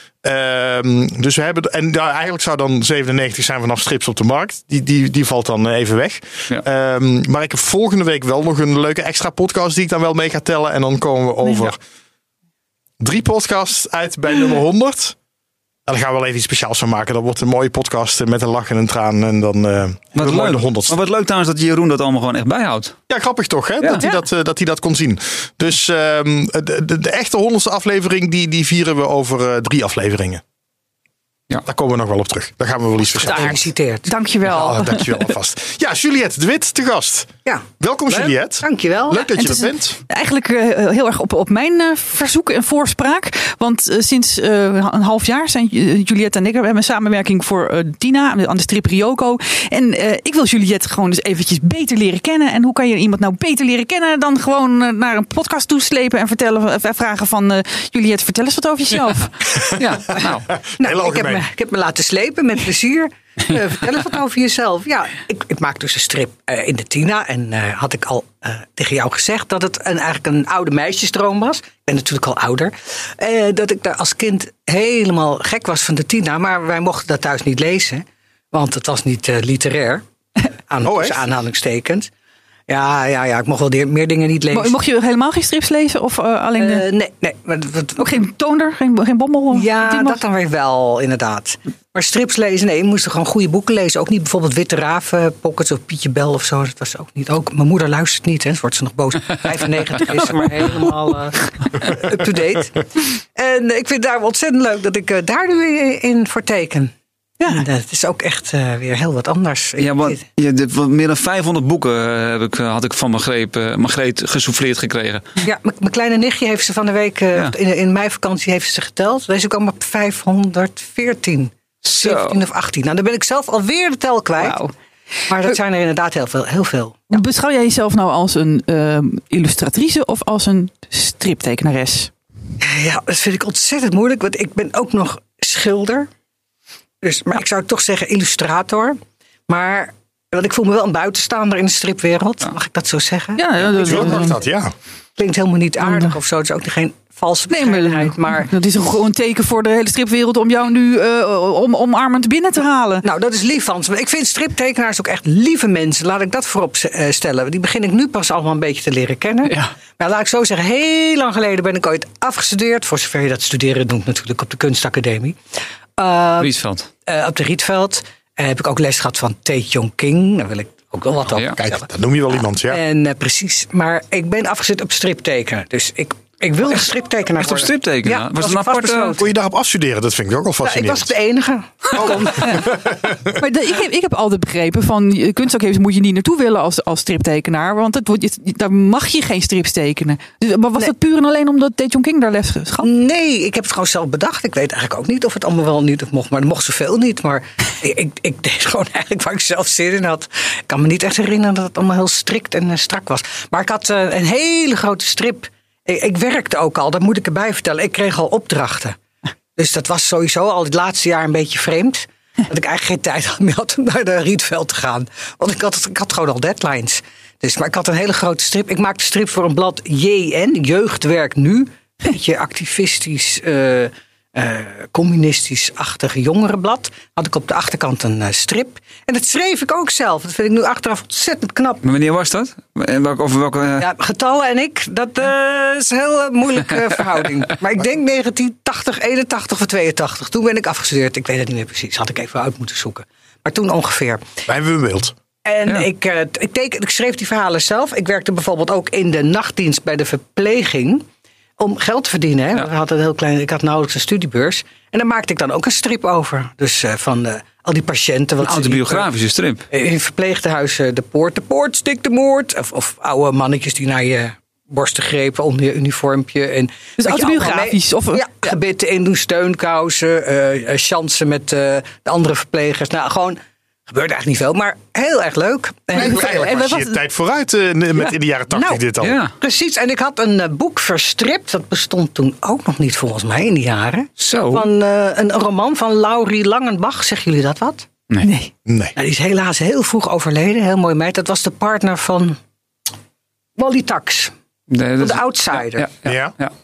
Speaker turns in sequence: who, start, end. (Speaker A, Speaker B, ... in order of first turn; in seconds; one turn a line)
Speaker A: 0.2-11.8
Speaker A: 13.0-15.2
Speaker A: 15.9-21.0
Speaker B: 20.1-23.0
Speaker A: 23.1-30.4
Speaker A: 31.6-33.6
Speaker C: 33.2-34.1
Speaker D: 33.2-35.2
Speaker A: 34.4-40.0
Speaker C: 37.4-39.2
Speaker D: 39.3-59.4
Speaker B: 59.7-60.5
Speaker A: 60.5-61.4
Speaker C: 60.8-80.0
Speaker C: 80.7-82.1
Speaker A: 80.8-81.2
Speaker C: 82.7-84.7
Speaker D: 84.5-86.8
Speaker C: 86.6-88.1
Speaker D: 88.0-90.2
Speaker C: 89.5-102.8
Speaker D: 100.2-100.9
Speaker C: 103.3-106.9
Speaker C: 107.5-110.2
Speaker B: 109.8-115.2
Speaker C: 115.4-124.6
Speaker B: 121.8-122.4
Speaker D: 124.4-124.7
Speaker C: 125.3-127.2
Speaker D: 127.1-132.1
Speaker C: 132.6-136.1
Speaker C: 137.0-144.3
Speaker D: 143.4-144.3
Speaker A: 143.8-144.7
Speaker C: 145.2-148.5
Speaker D: 145.8-146.2
Speaker D: 147.5-153.0
Speaker C: 153.0-165.4
Speaker C: 166.0-166.5
Speaker B: 166.4-166.9
Speaker C: 167.1-171.8
Speaker A: 171.6-172.8
Speaker C: 172.7-179.3
Speaker B: 177.4-179.2
Speaker A: 179.1-181.1
Speaker C: 180.6-182.7
Speaker A: 182.0-183.4
Speaker D: 183.3-192.9
Speaker C: 192.8-209.0
Speaker C: 209.6-231.8
Speaker B: 231.8-233.9
Speaker C: 233.8-244.3
Speaker A: 244.5-245.1
Speaker C: 245.4-251.1
Speaker C: 251.6-259.1
Speaker B: 258.4-259.7
Speaker C: 259.7-276.9
Speaker D: 267.0-268.5
Speaker A: 275.9-279.2
Speaker C: 278.5-278.8
Speaker B: 279.0-279.3
Speaker C: 279.4-287.9
Speaker B: 284.2-284.6
Speaker D: 288.2-288.5
Speaker A: 288.6-288.9
Speaker C: 288.9-292.4
Speaker C: 293.6-294.3
Speaker B: 294.7-296.5
Speaker C: 295.0-295.9
Speaker A: 296.0-296.3